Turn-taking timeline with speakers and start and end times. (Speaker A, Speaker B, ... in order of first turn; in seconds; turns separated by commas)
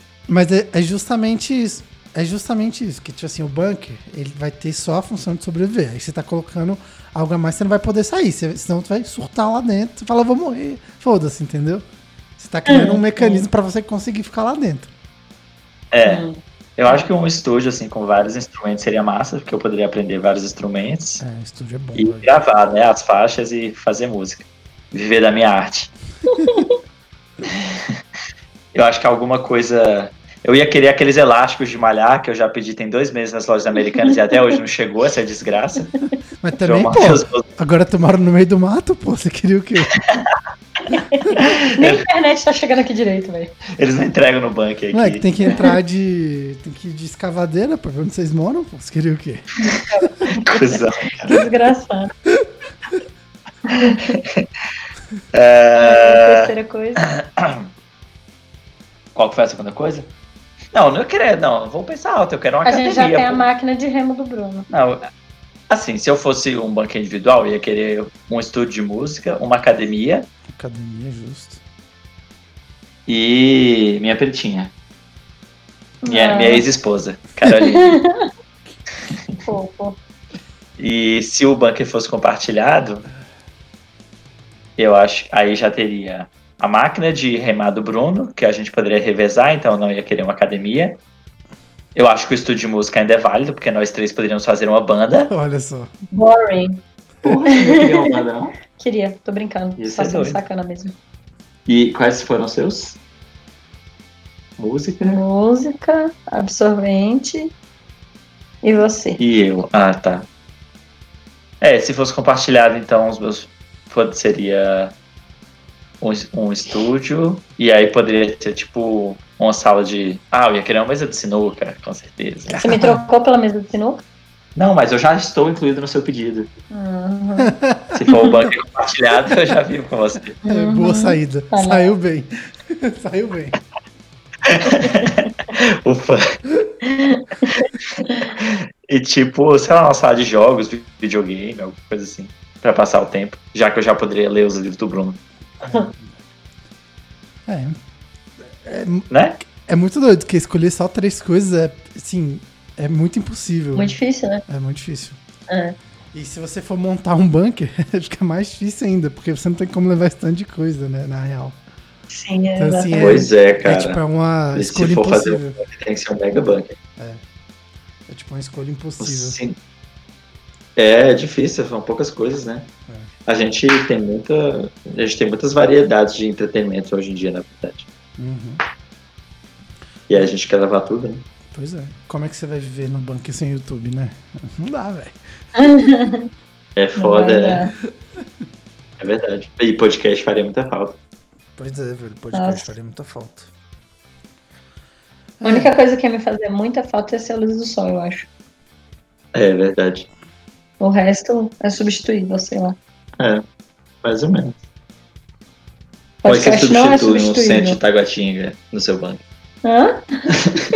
Speaker A: 0.3-11.8, Speaker A: 12.4-14.9, Speaker B: 12.7-13.5, Speaker C: 15.9-16.3, Speaker B: 16.0-17.0, Speaker C: 16.8-21.2, Speaker A: 21.2-22.3, Speaker C: 22.0-25.9, Speaker B: 26.3-26.8, Speaker C: 27.6-27.9, Speaker C: 28.7-35.9, Speaker A: 36.4-40.0, Speaker C: 36.6-37.5, Speaker C: 40.0-40.2, Speaker B: 41.0-43.6, Speaker C: 41.3-42.0, Speaker C: 43.7-45.3, Speaker A: 44.9-50.1, Speaker B: 49.6-52.1, Speaker C: 50.4-51.4, Speaker B: 53.7-54.2, Speaker C: 54.1-54.5, Speaker C: 55.3-57.7, Speaker B: 55.8-57.0, Speaker C: 59.1-60.1, Speaker C: 60.7-63.5, Speaker B: 62.6-64.7, Speaker C: 64.7-65.1, Speaker C: 65.7-70.3, Speaker A: 70.5-71.6, Speaker C: 73.1-74.7, Speaker B: 76.0-76.7, Speaker C: 76.1-78.0, Speaker B: 77.8-78.3, Speaker B: 79.4-80.0, Speaker C: 80.8-83.0, Speaker C: 84.8-91.0, Speaker C: 92.0-95.3, Speaker A: 95.3-95.9, Speaker B: 96.1-96.8, Speaker C: 97.2-98.6, Speaker B: 97.5-98.1, Speaker B: 98.8-101.0, Speaker C: 99.8-100.4, Speaker C: 101.7-103.0, Speaker C: 104.6-105.2, Speaker B: 105.0-107.5, Speaker B: 108.6-109.2, Speaker C: 109.2-110.3, Speaker C: 111.6-114.9, Speaker C: 116.0-122.6, Speaker A: 122.5-123.0, Speaker B: 122.6-124.0, Speaker C: 124.6-126.5, Speaker B: 126.7-127.5, Speaker A: 127.4-128.1, Speaker C: 127.9-130.4, Speaker A: 130.4-133.6, Speaker B: 130.4-131.9, Speaker C: 134.4-136.4, Speaker B: 136.8-138.3, Speaker C: 138.4-145.2, Speaker A: 145.6-146.2, Speaker A: 147.5-147.8, Speaker A: 148.4-154.0, Speaker C: 149.1-149.4, Speaker B: 153.8-154.4, Speaker A: 154.5-155.2, Speaker B: 155.5-155.8, Speaker A: 156.1-161.6, Speaker B: 162.1-163.3, Speaker A: 162.6-165.6, Speaker C: 163.0-164.0, Speaker C: 164.6-166.8, Speaker A: 167.0-167.2, Speaker A: 168.1-169.4, Speaker C: 169.0-169.6, Speaker C: 170.8-172.7, Speaker C: 173.3-177.9, Speaker A: 178.2-178.6, Speaker C: 180.1-181.2, Speaker A: 181.5-185.2, Speaker B: 185.6-186.3, Speaker C: 186.8-187.6, Speaker B: 187.0-187.7, Speaker C: 189.0-191.0, Speaker A: 191.6-193.5, Speaker B: 192.3-192.7, Speaker A: 195.4-195.8, Speaker B: 195.4-198.3, Speaker C: 199.3-200.1, Speaker B: 200.8-202.8, Speaker C: 204.0-204.6, Speaker B: 206.2-207.8, Speaker C: 206.2-209.2, Speaker B: 209.6-210.2, Speaker C: 210.3-210.6